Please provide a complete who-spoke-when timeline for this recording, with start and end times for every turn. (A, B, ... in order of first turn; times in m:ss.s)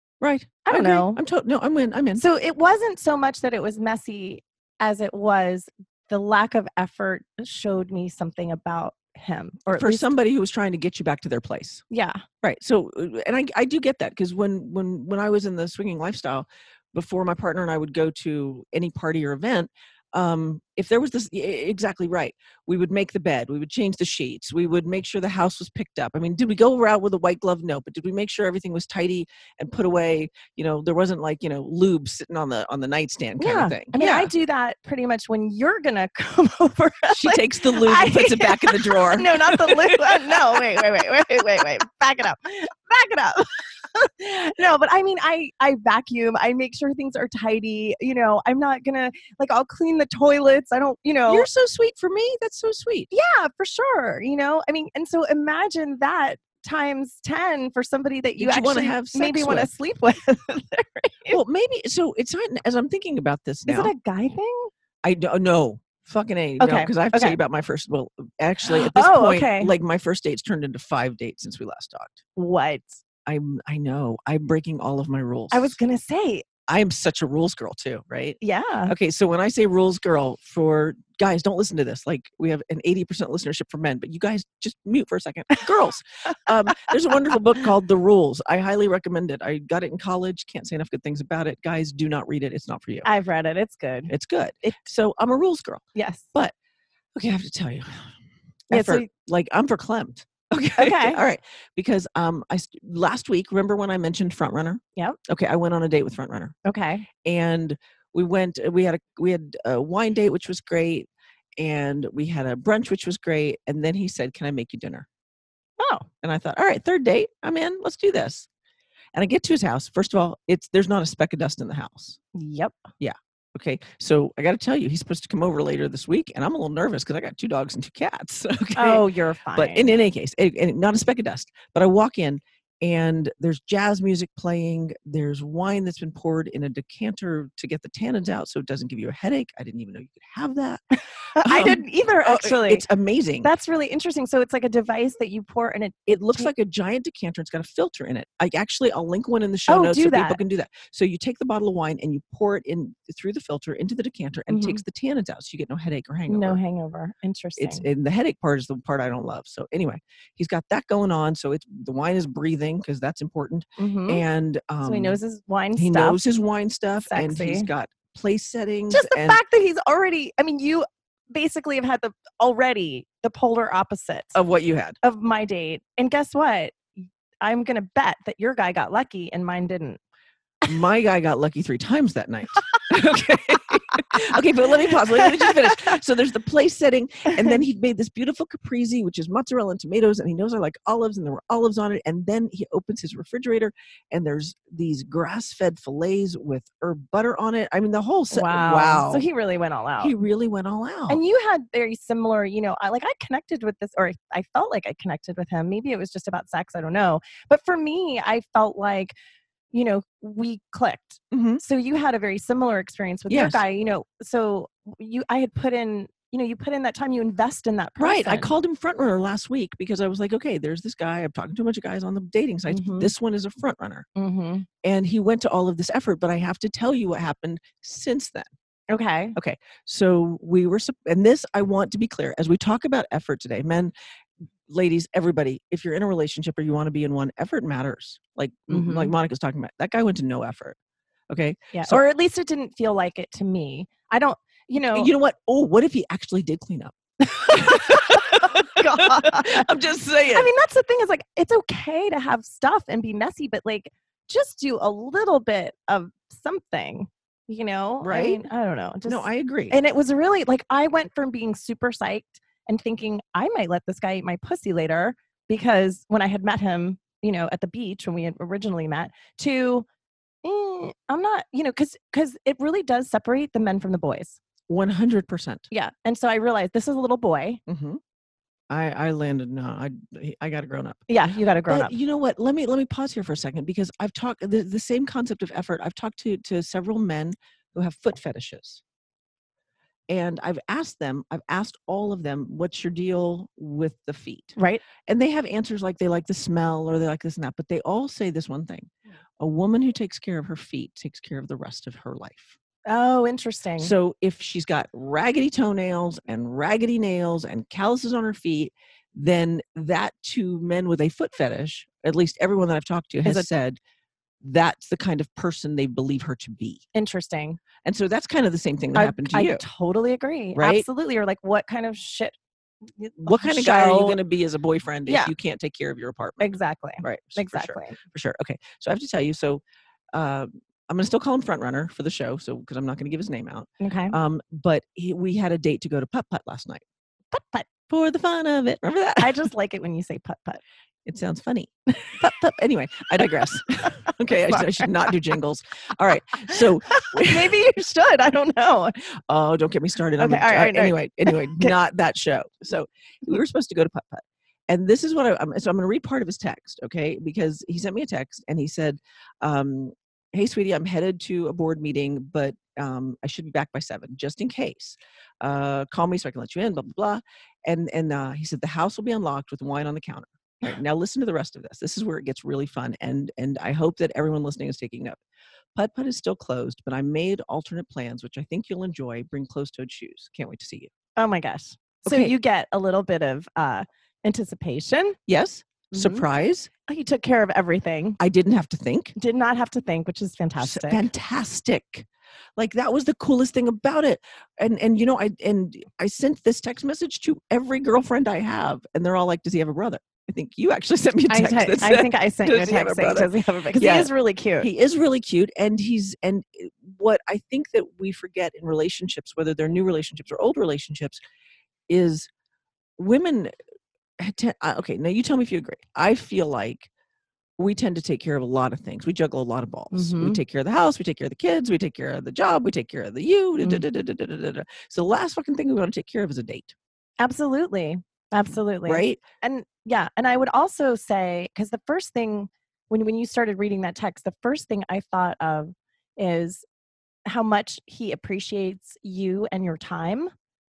0:00.2-0:02.2 A
0:00.7-0:01.2 B
0:02.2-0:10.1 B
0:09.7-0:11.8 A
0:11.9-0:12.2 B
0:12.4-0:34.3 A
0:33.4-0:51.5 B
0:37.1-0:40.6 A
0:51.3-0:53.1 A
0:53.1-1:01.4 B
0:58.4-0:59.7 A
1:01.3-1:03.9 A
1:03.7-1:04.7 B
1:05.0-1:12.2 A
1:06.6-1:07.4 B
1:08.6-1:09.7 B
1:12.4-1:13.0 B
1:13.3-1:15.8 A
1:15.5-1:16.4 B
1:16.7-1:33.1 A
1:18.4-1:19.0 B
1:33.0-1:34.8 B
1:34.1-1:36.5 A
1:36.0-1:36.3 B
1:37.2-1:38.2 A
1:38.7-1:46.6 A
1:38.7-1:39.1 B
1:40.8-1:41.2 B
1:46.6-1:47.1 B
1:47.2-1:55.1 A
1:55.8-1:56.1 B
1:56.2-1:58.5 A
1:59.1-2:02.2 A
2:02.3-2:02.8 B
2:03.0-2:20.8 A
2:08.8-2:09.9 B
2:21.3-2:22.8 B
2:21.4-2:23.5 A
2:23.4-2:26.5 B
2:26.1-2:36.6 A
2:29.7-2:30.4 B
2:34.5-2:34.8 B
2:36.3-2:37.8 B
2:37.6-2:45.2 A
2:43.8-2:44.2 B
2:44.8-2:46.2 B
2:45.8-2:49.4 A
2:47.1-2:47.7 B
2:48.9-2:54.4 B
2:54.4-2:55.0 A
2:55.0-3:00.0 B
3:00.7-3:19.3 A
3:18.3-3:20.1 B
3:20.0-3:21.2 A
3:21.1-3:29.1 B
3:29.7-3:38.5 B
3:31.3-3:31.6 A
3:33.3-3:33.6 A
3:38.0-3:44.1 A
3:42.7-3:43.1 B
3:44.2-3:44.7 B
3:44.8-3:48.5 A
3:48.9-3:49.4 B
3:49.4-3:53.9 A
3:54.7-4:00.8 A
3:58.7-3:59.1 B
4:01.3-4:02.0 A
4:01.7-4:05.1 B
4:04.9-4:07.0 A
4:07.2-4:09.7 B
4:07.5-4:10.5 A
4:10.3-4:29.9 B
4:18.0-4:18.4 A
4:19.0-4:19.8 A
4:30.4-4:34.4 B
4:34.7-4:35.7 A
4:35.7-4:37.6 B
4:37.7-4:38.0 A
4:38.7-4:41.0 A
4:41.1-4:42.0 B
4:41.7-4:48.8 A
4:50.1-5:02.6 A
4:54.6-4:54.8 B
5:02.9-5:03.9 B
5:03.8-5:13.8 A
5:14.4-5:16.8 A
5:16.9-5:17.6 B
5:17.8-5:19.6 A
5:19.0-5:22.4 B
5:20.6-5:20.9 A
5:23.0-5:24.2 B
5:23.2-5:26.5 A
5:25.1-5:25.3 B
5:26.4-5:28.0 B
5:27.0-5:29.6 A
5:30.1-5:36.8 A
5:33.8-5:34.2 B
5:37.3-5:37.7 B
5:37.9-5:39.5 A
5:39.2-5:40.6 B
5:41.1-5:47.6 A
5:43.8-5:45.2 B
5:46.6-5:49.0 B
5:49.1-6:15.2 A
5:50.2-5:51.7 B
6:15.8-6:20.9 A
6:21.2-6:25.2 B
6:22.0-6:22.3 A
6:25.3-6:26.7 A
6:25.9-6:26.3 B
6:26.9-6:28.2 B
6:28.2-6:29.2 A
6:29.2-6:31.0 B
6:30.6-6:51.2 A
6:41.3-6:44.7 B
6:51.9-6:52.3 A
6:53.0-6:53.5 A
6:54.2-6:56.9 A
6:57.6-7:06.7 A
6:59.9-7:00.4 B
7:07.2-7:16.7 B
7:08.9-7:09.2 A
7:17.3-7:20.3 B